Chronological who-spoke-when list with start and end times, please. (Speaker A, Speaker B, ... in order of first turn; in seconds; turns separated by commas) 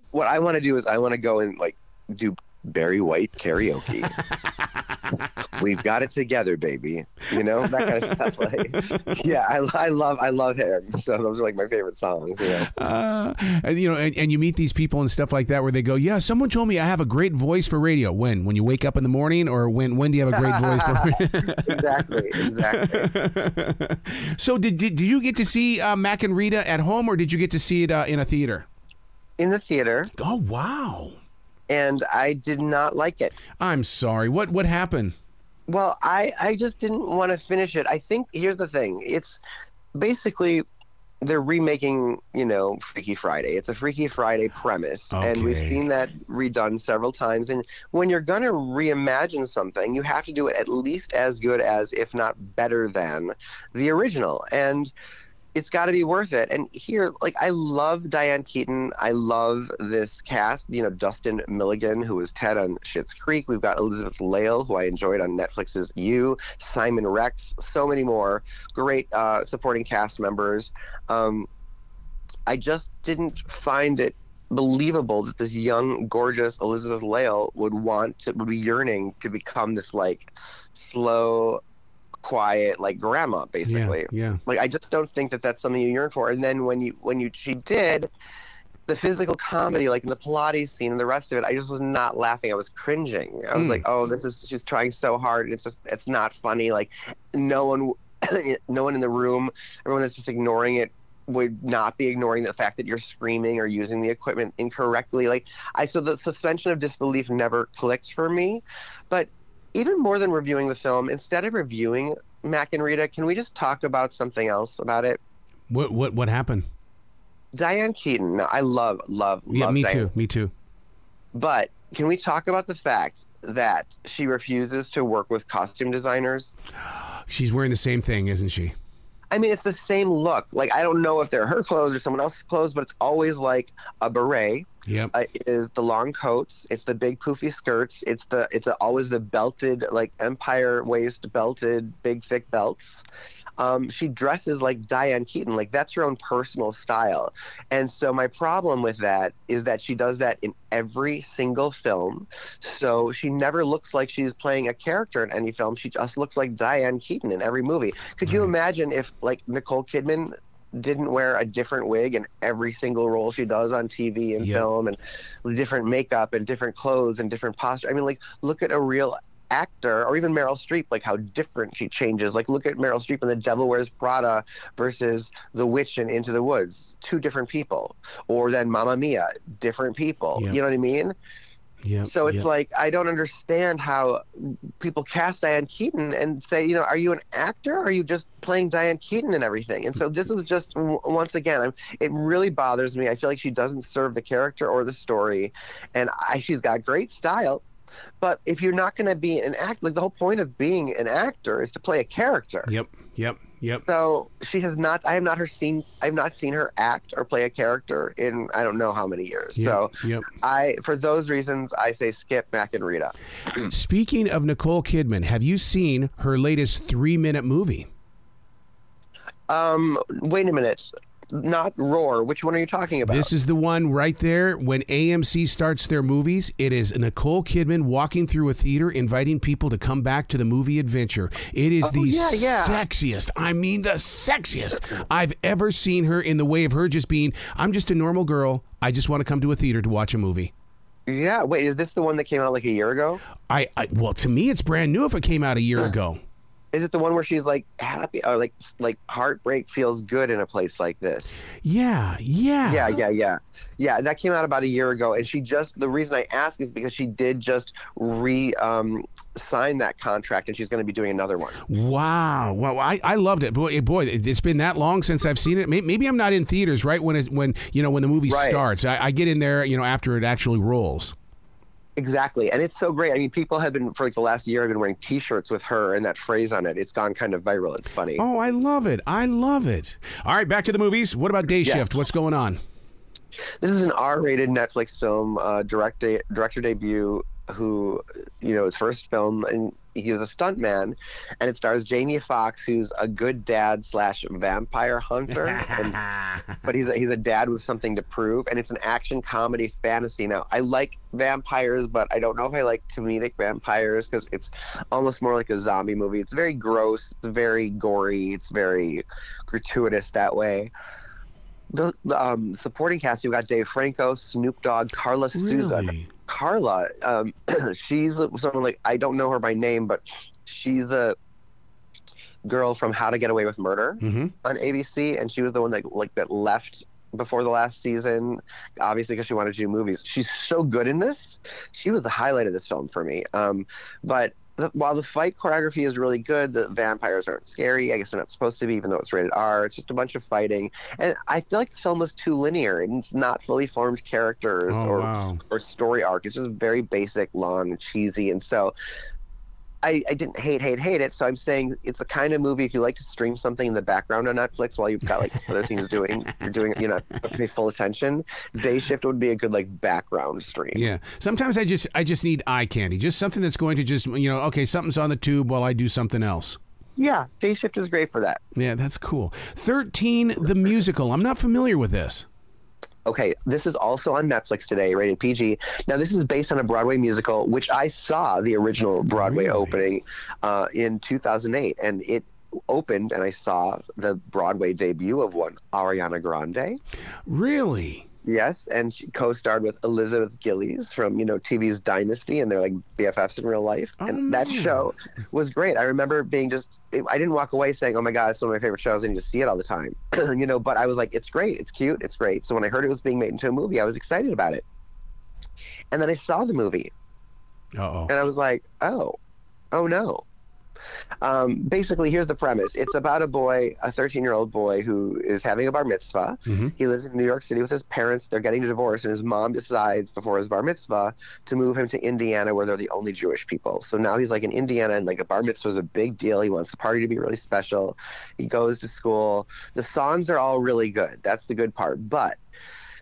Speaker A: 0.1-4.2, Speaker B: 4.1-5.3, Speaker A: 5.6-12.7, Speaker B: 7.4-8.3, Speaker B: 12.5-28.7, Speaker A: 20.3-23.1, Speaker A: 29.4-30.1, Speaker B: 30.2-31.2, Speaker A: 31.7-33.4, Speaker B: 33.6-35.1, Speaker A: 35.7-39.4, Speaker A: 40.0-40.6, Speaker A: 41.2-54.9, Speaker B: 45.1-45.8, Speaker A: 55.5-71.5, Speaker A: 72.5-81.6, Speaker A: 82.2-88.1, Speaker B: 83.7-84.4, Speaker A: 88.9-115.2, Speaker B: 93.5-93.8, Speaker B: 115.7-116.7, Speaker A: 117.5-120.1, Speaker B: 119.5-120.5, Speaker A: 121.3-126.6, Speaker B: 126.9-128.7, Speaker A: 129.3-143.0, Speaker B: 134.9-135.1, Speaker A: 143.6-181.2, Speaker B: 158.2-158.5, Speaker B: 164.4-164.7, Speaker B: 181.8-182.5, Speaker A: 182.0-197.6, Speaker A: 198.2-202.7, Speaker B: 202.7-203.8, Speaker A: 203.9-213.7, Speaker B: 209.6-210.3, Speaker B: 213.6-217.9, Speaker A: 219.5-223.3, Speaker B: 223.1-240.5, Speaker A: 231.8-232.8, Speaker A: 241.1-243.2, Speaker B: 243.5-246.2, Speaker A: 246.7-251.4, Speaker B: 251.6-253.0, Speaker A: 252.7-261.7, Speaker B: 261.7-271.1, Speaker A: 268.3-268.6, Speaker A: 272.0-278.2, Speaker B: 278.2-282.6, Speaker A: 281.6-282.0, Speaker A: 283.6-296.0, Speaker B: 295.5-296.4, Speaker A: 296.6-310.7, Speaker A: 311.7-321.2, Speaker B: 315.3-316.1, Speaker A: 322.4-348.7, Speaker B: 324.0-324.3, Speaker B: 344.7-345.4, Speaker A: 349.8-360.9, Speaker B: 360.7-366.6, Speaker A: 367.0-368.4, Speaker B: 368.6-372.3, Speaker A: 373.1-386.8, Speaker B: 379.2-379.8, Speaker B: 387.3-388.1, Speaker A: 388.2-404.6, Speaker B: 394.0-394.9, Speaker A: 405.9-406.9, Speaker B: 407.8-408.1, Speaker A: 408.1-409.1, Speaker A: 409.7-410.2, Speaker A: 411.2-432.4, Speaker B: 416.5-416.7